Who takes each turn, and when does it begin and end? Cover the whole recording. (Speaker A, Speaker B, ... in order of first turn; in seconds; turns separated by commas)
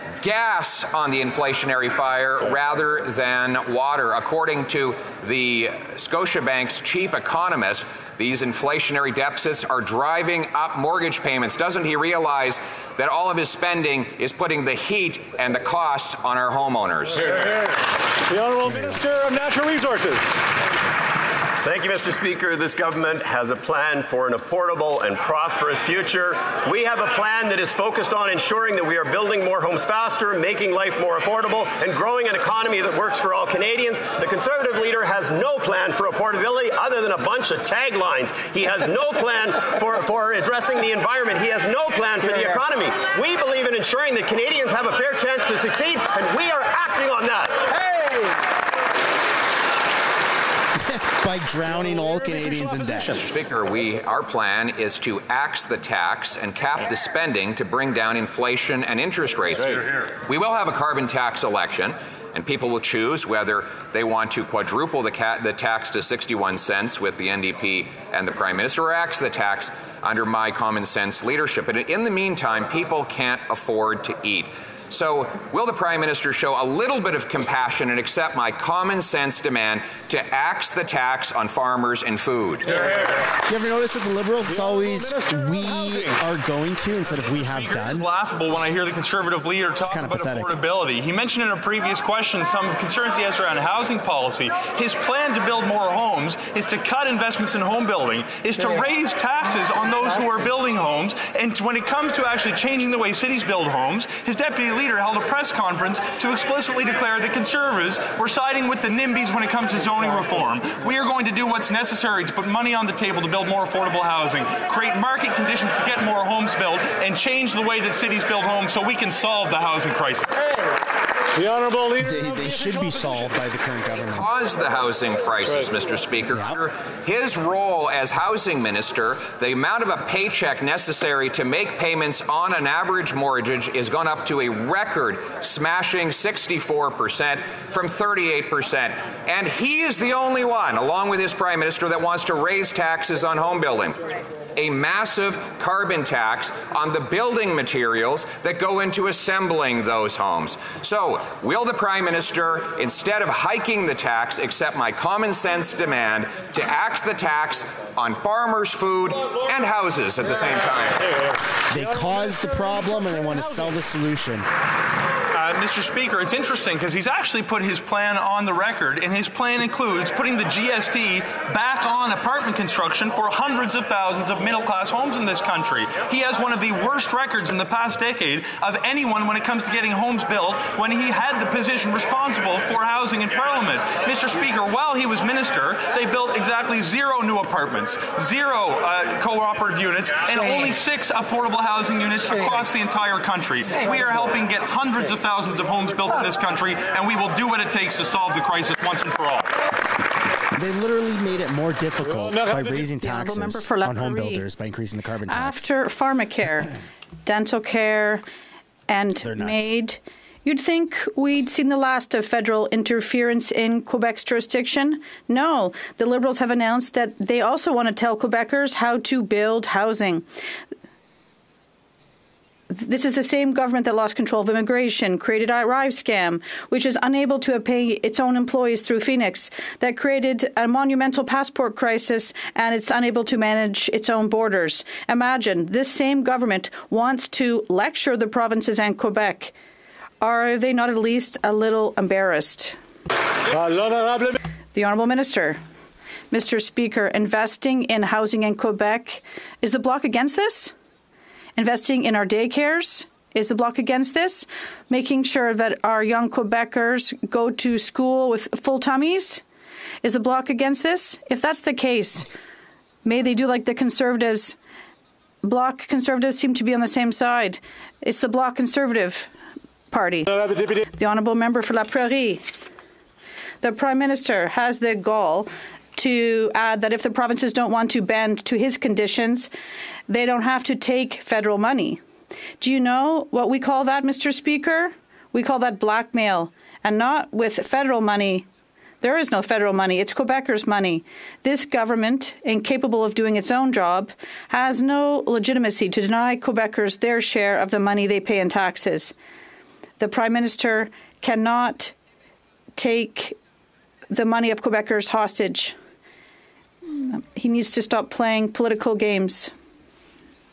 Speaker A: 0.2-17.3, Speaker B: 18.3-20.3, Speaker C: 21.6-47.6, Speaker D: 50.8-53.2, Speaker B: 51.8-53.0, Speaker A: 53.1-82.7, Speaker D: 83.5-88.1, Speaker B: 84.5-86.2, Speaker E: 87.2-120.3, Speaker D: 89.8-90.6, Speaker B: 121.4-123.3, Speaker D: 122.0-124.3, Speaker A: 124.1-144.0, Speaker D: 126.3-126.6, Speaker A: 144.6-161.1, Speaker D: 161.7-164.4, Speaker B: 161.8-163.8, Speaker E: 165.3-199.5, Speaker D: 200.6-205.7, Speaker B: 202.0-202.8, Speaker F: 203.0-204.4, Speaker F: 205.3-206.7, Speaker F: 207.2-208.2, Speaker F: 208.9-220.2, Speaker D: 209.2-209.7, Speaker F: 222.7-239.5, Speaker F: 240.2-242.8, Speaker B: 243.5-244.3, Speaker F: 244.7-245.6, Speaker F: 246.3-250.7, Speaker F: 251.6-259.4, Speaker F: 260.0-262.3, Speaker F: 263.0-264.5, Speaker F: 265.4-269.3, Speaker F: 269.9-270.3, Speaker B: 270.3-270.8, Speaker F: 270.9-272.4, Speaker F: 273.6-279.5, Speaker F: 280.1-282.0, Speaker F: 282.6-288.4, Speaker F: 289.0-299.1, Speaker F: 300.0-301.9, Speaker F: 302.8-303.3, Speaker F: 304.1-305.7, Speaker F: 306.9-309.5